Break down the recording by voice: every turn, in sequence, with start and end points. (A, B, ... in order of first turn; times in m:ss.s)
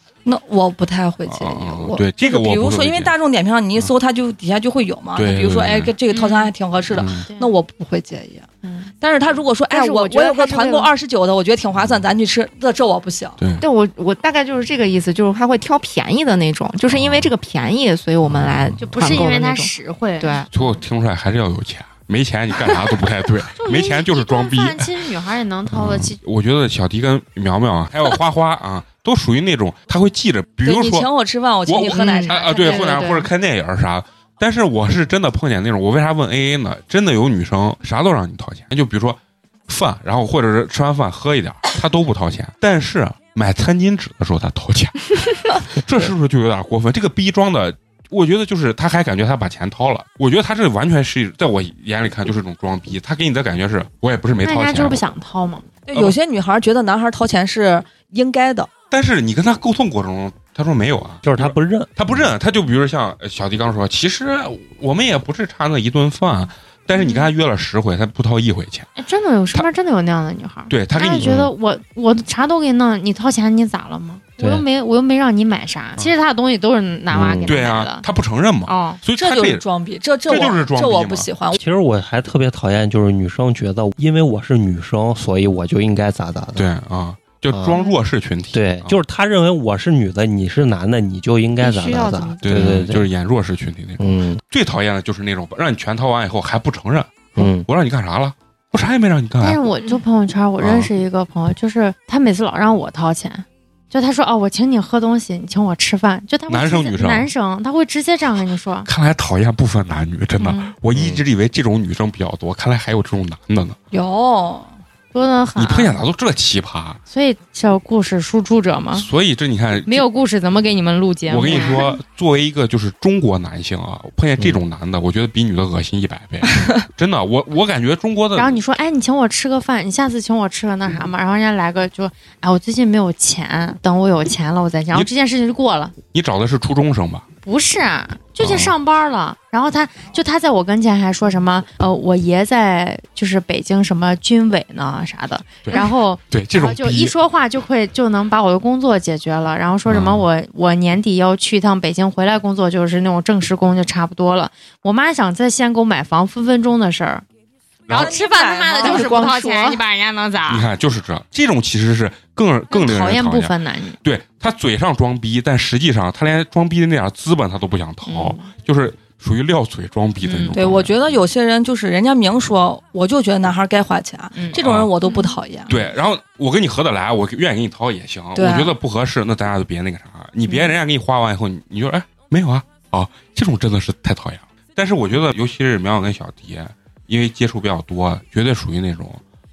0:00.3-0:08.5 A
0:01.3-0:03.1 B
0:05.2-0:05.9 B
0:06.1-0:06.5 C
0:06.9-0:07.3 B
0:07.3-0:07.5 C
0:08.6-0:08.9 C
0:09.0-0:13.4 A
0:09.7-0:10.9 C
0:13.4-0:13.6 B
0:13.6-0:20.5 D
0:16.9-0:17.3 B
0:18.2-0:19.2 B
0:18.8-0:20.4 C
0:20.5-0:24.9 B
0:23.6-0:26.2 C
0:25.7-0:31.1 B
0:30.6-0:32.9 A
0:31.7-0:55.1 B
0:31.8-0:33.3 D
0:32.6-0:33.0 C
0:54.4-0:55.7 C
0:55.9-0:58.7 A
0:58.9-1:08.9 B
1:01.2-1:02.3 E
1:06.9-1:07.3 C
1:09.0-1:18.1 C
1:10.7-1:11.4 B
1:11.2-1:11.5 E
1:14.4-1:14.6 E
1:17.1-1:17.6 E
1:17.4-1:19.6 B
1:18.7-1:19.0 C
1:19.2-1:21.6 A
1:20.3-1:21.3 B
1:21.6-1:26.7 E
1:26.6-1:29.0 B
1:27.5-1:27.9 E
1:28.5-1:33.1 E
1:31.6-1:32.8 D
1:32.4-1:39.6 B
1:34.0-1:34.4 E
1:37.4-1:37.7 E
1:39.4-1:48.9 C
1:40.6-1:40.9 B
1:46.5-1:47.3 B
1:48.9-1:53.8 B
1:50.4-1:50.7 C
1:50.9-1:51.2 E
1:53.9-1:54.8 A
1:55.1-1:56.0 C
1:55.6-1:57.0 B
1:57.1-1:59.1 C
1:58.9-2:00.1 B
1:59.8-2:01.9 C
2:01.3-2:08.6 B
2:06.5-2:06.8 A
2:08.4-2:15.9 C
2:16.1-2:17.2 B
2:17.4-2:37.2 C
2:18.4-2:18.8 B
2:25.6-2:27.1 B
2:29.9-2:30.2 B
2:37.9-2:38.2 B
2:37.9-2:40.7 C
2:37.9-2:39.2 A
2:38.8-2:39.8 D
2:40.5-2:51.2 B
2:42.7-2:44.0 C
2:48.0-2:48.5 C
2:50.2-2:50.6 C
2:50.5-2:55.8 A
2:54.4-2:55.4 C
2:54.5-2:54.9 B
2:55.7-3:09.2 B
2:58.4-2:58.8 A
3:00.5-3:00.8 C